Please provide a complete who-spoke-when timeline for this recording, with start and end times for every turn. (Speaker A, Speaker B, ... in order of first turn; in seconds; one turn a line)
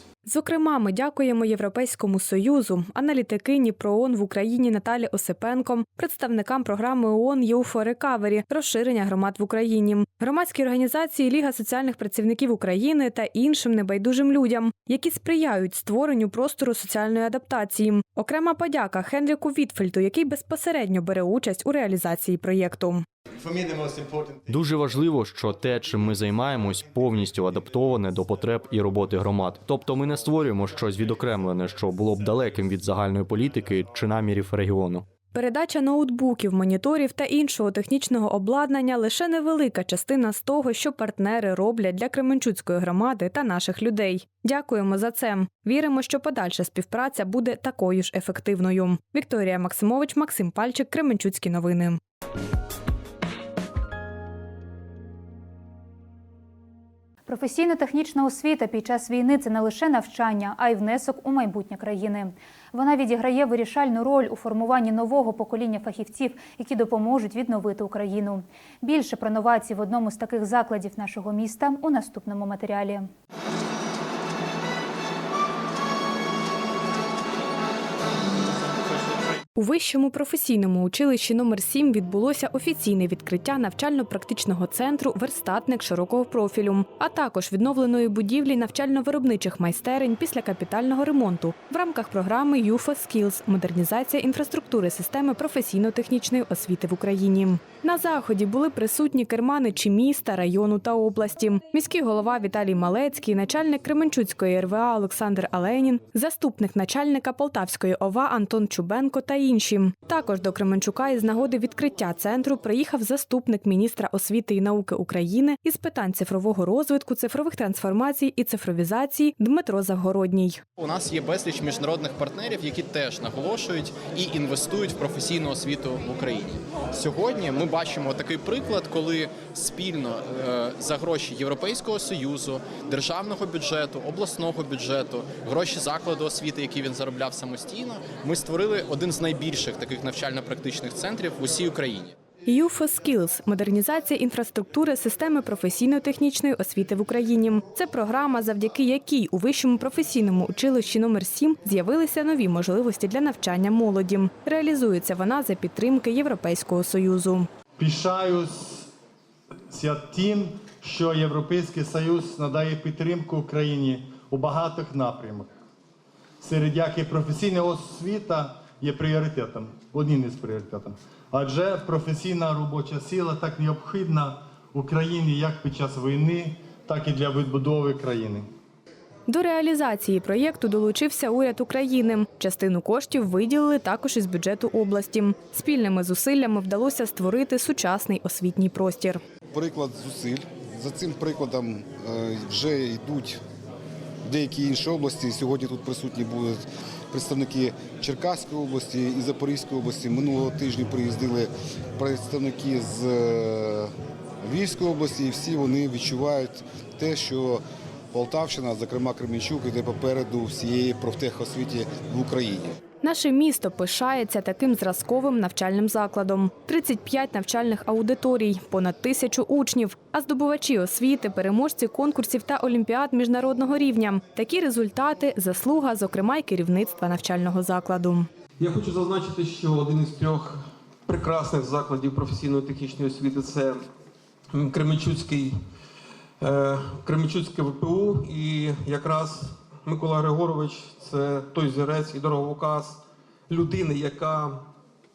Speaker A: 0.2-23.1
Speaker B: 24.5-35.0
Speaker A: 35.3-52.0
Speaker C: 57.2-73.1
Speaker A: 79.5-120.6
Speaker D: 120.8-142.1
Speaker A: 142.4-157.5
Speaker E: 157.8-158.8
Speaker E: 159.7-165.5
Speaker E: 166.4-178.5
Speaker A: 179.3-189.2
Speaker F: 189.5-193.4
Speaker F: 194.2-203.9
Speaker F: 204.4-207.6
Speaker F: 208.1-212.8
Speaker A: 213.0-228.3
Speaker G: 228.6-233.8
Speaker G: 234.5-235.5
Speaker G: 236.4-244.6